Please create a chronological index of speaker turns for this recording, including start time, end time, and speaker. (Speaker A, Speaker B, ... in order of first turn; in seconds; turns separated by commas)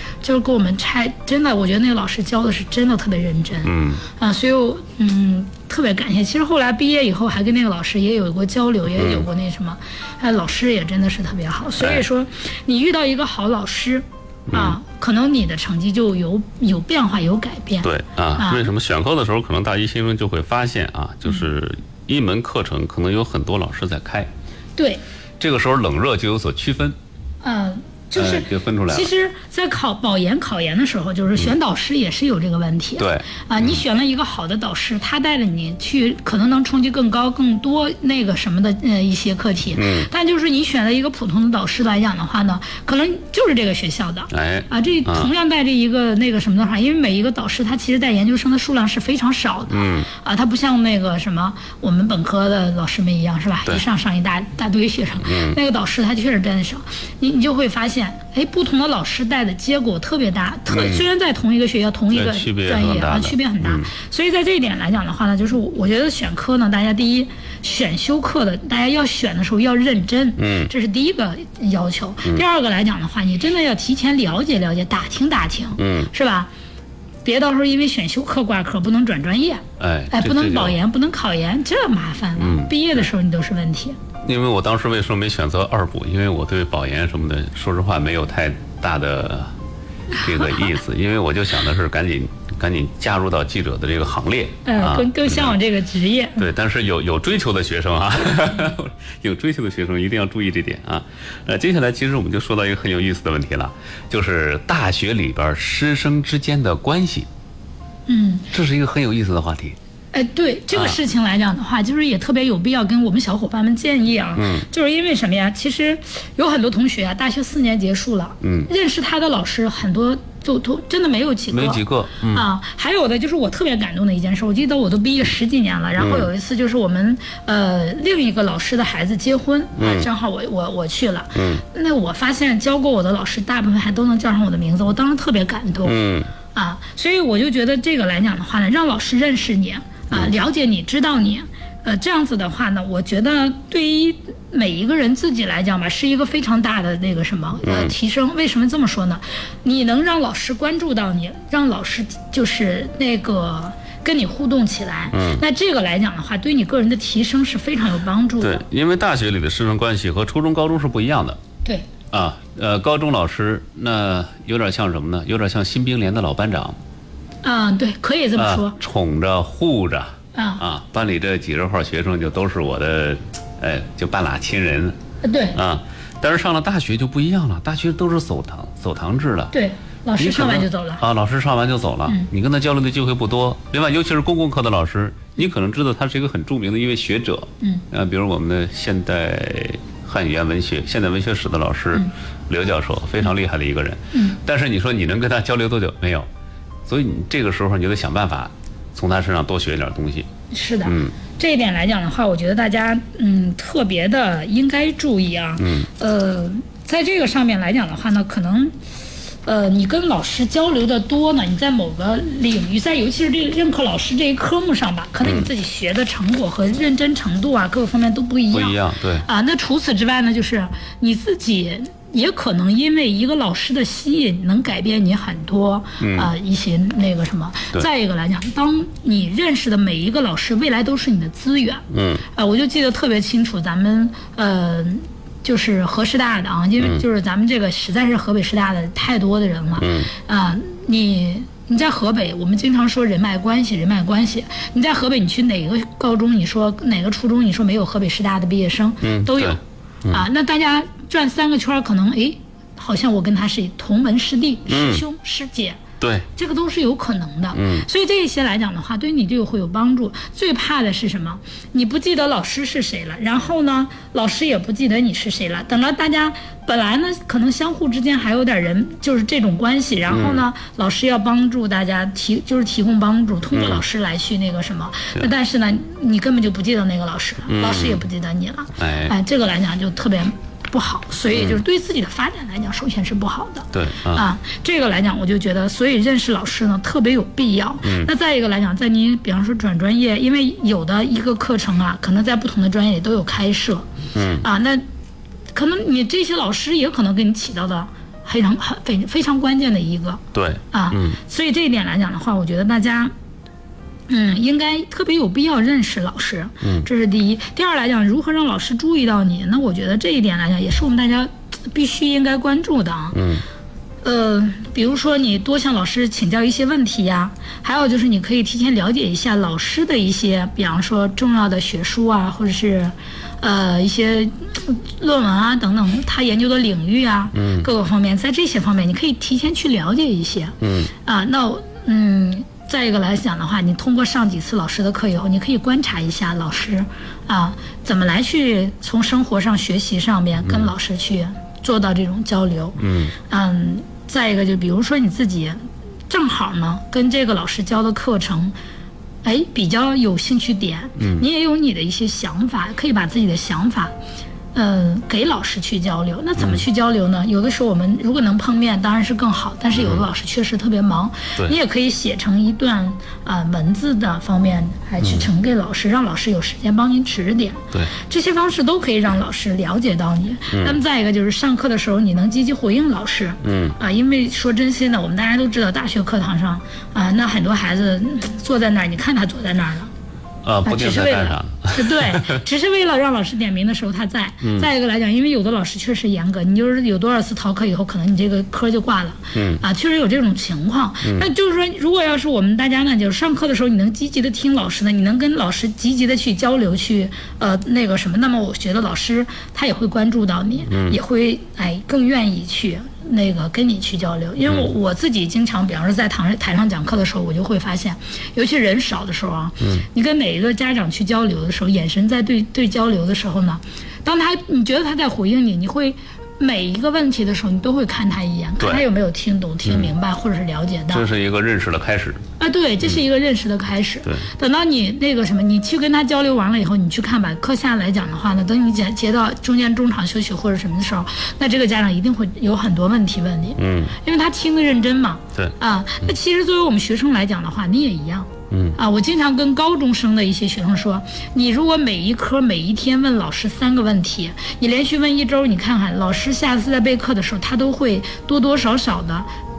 Speaker A: 0.2-18.7, Speaker B: 3.6-4.0, Speaker B: 8.9-9.2, Speaker B: 11.8-12.0, Speaker B: 14.5-14.8, Speaker B: 17.8-24.3, Speaker A: 24.8-25.0, Speaker B: 25.4-26.9, Speaker A: 27.4-76.5, Speaker B: 28.1-29.1, Speaker B: 33.0-33.8, Speaker B: 39.7-40.1, Speaker B: 44.3-45.3, Speaker B: 49.7-50.1, Speaker B: 55.2-55.6, Speaker B: 60.7-61.0, Speaker B: 62.1-63.9, Speaker B: 70.4-70.7, Speaker B: 75.8-76.1, Speaker A: 77.2-84.0, Speaker B: 79.8-80.8, Speaker B: 82.4-82.7, Speaker B: 84.2-89.5, Speaker B: 90.1-95.6, Speaker A: 94.7-96.5, Speaker B: 96.4-107.3, Speaker A: 108.1-108.5, Speaker B: 108.5-109.8, Speaker A: 110.1-136.0, Speaker B: 114.3-114.7, Speaker B: 118.4-118.7, Speaker B: 121.5-122.5, Speaker B: 126.0-126.3, Speaker B: 129.8-130.1, Speaker B: 131.3-131.6, Speaker B: 135.8-136.3, Speaker A: 136.5-158.6, Speaker B: 147.6-147.9, Speaker B: 155.1-155.4, Speaker B: 158.4-161.4, Speaker B: 162.1-166.8, Speaker A: 167.4-168.8, Speaker B: 168.4-175.0, Speaker A: 170.3-170.6, Speaker A: 175.2-175.6, Speaker B: 175.5-179.5, Speaker A: 179.5-181.0, Speaker B: 180.2-196.3, Speaker A: 194.1-194.4, Speaker B: 196.8-200.3, Speaker A: 200.5-208.8, Speaker B: 200.8-201.2, Speaker B: 205.6-205.9, Speaker A: 209.4-249.6, Speaker B: 215.2-215.5, Speaker B: 218.5-219.3, Speaker B: 226.0-226.3, Speaker B: 231.9-232.2, Speaker B: 239.8-240.1, Speaker B: 249.0-250.2, Speaker A: 250.1-255.8, Speaker B: 254.7-255.0, Speaker B: 256.0-256.3, Speaker A: 256.3-293.9, Speaker B: 257.5-257.9, Speaker B: 270.1-270.4, Speaker B: 273.5-273.8, Speaker B: 277.5-278.0, Speaker B: 278.8-279.1, Speaker B: 281.3-281.6, Speaker B: 283.7-284.3, Speaker B: 287.8-288.1, Speaker B: 294.1-294.4, Speaker A: 294.4-294.8, Speaker A: 295.5-303.1, Speaker B: 300.3-301.2, Speaker A: 304.1-313.2, Speaker B: 306.6-306.9, Speaker B: 313.1-313.4, Speaker A: 314.0-348.5, Speaker B: 327.3-327.7, Speaker B: 330.6-330.9, Speaker B: 340.4-340.7, Speaker B: 342.8-343.1, Speaker A: 349.2-353.9, Speaker B: 351.0-351.2, Speaker A: 354.5-379.9, Speaker B: 356.4-356.6, Speaker B: 359.7-360.0, Speaker B: 365.0-365.3, Speaker B: 370.5-370.8, Speaker B: 373.4-373.8, Speaker B: 380.4-382.4, Speaker A: 380.6-421.1, Speaker B: 384.4-384.7, Speaker B: 389.3-389.6, Speaker B: 391.0-391.3, Speaker B: 400.7-401.0, Speaker B: 419.6-419.9, Speaker B: 420.9-422.2, Speaker A: 422.4-449.3, Speaker B: 433.6-433.9, Speaker B: 438.5-438.8